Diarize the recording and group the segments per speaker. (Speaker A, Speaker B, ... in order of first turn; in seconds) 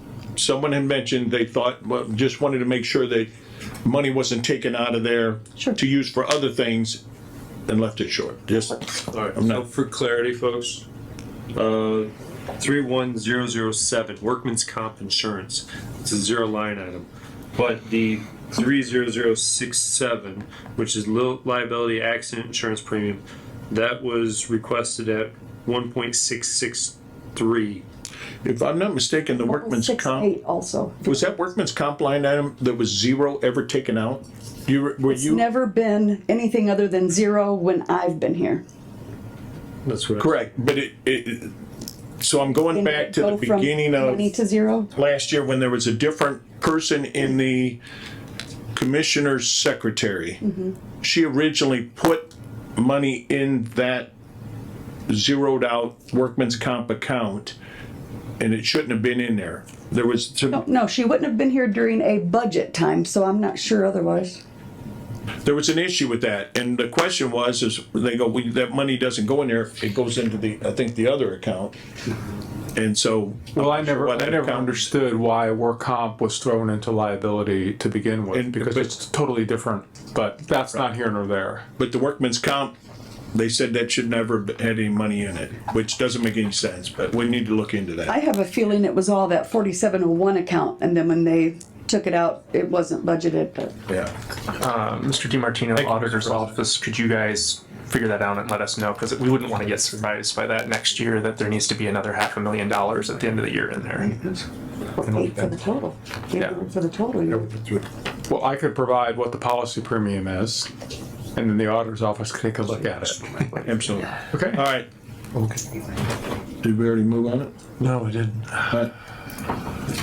Speaker A: 0.3-3.3, 3.8-7.0, 7.7-9.6, 28.4-30.3, 31.1-35.4, 40.2-41.5, 42.2-44.2, 44.9-47.8, 48.7-50.4, 51.0-54.1, 55.1-57.5, 58.4-60.6, 65.4-71.8, 72.7-74.9, 78.3-78.9, 81.8-82.7, 83.3-88.2, 113.6-114.9, 116.6-117.5
Speaker B: 9.1-10.8, 11.5-27.8, 39.9-40.3, 117.8-118.8
Speaker C: 29.4-31.3, 35.1-38.6, 42.6-44.9, 50.4-50.7, 60.5-64.4, 88.1-93.8, 104.0-104.4, 105.0-107.5
Speaker D: 73.5-81.7, 105.0-105.5, 108.3-110.7, 111.3-113.5, 114.3-114.6
Speaker E: 94.5-104.1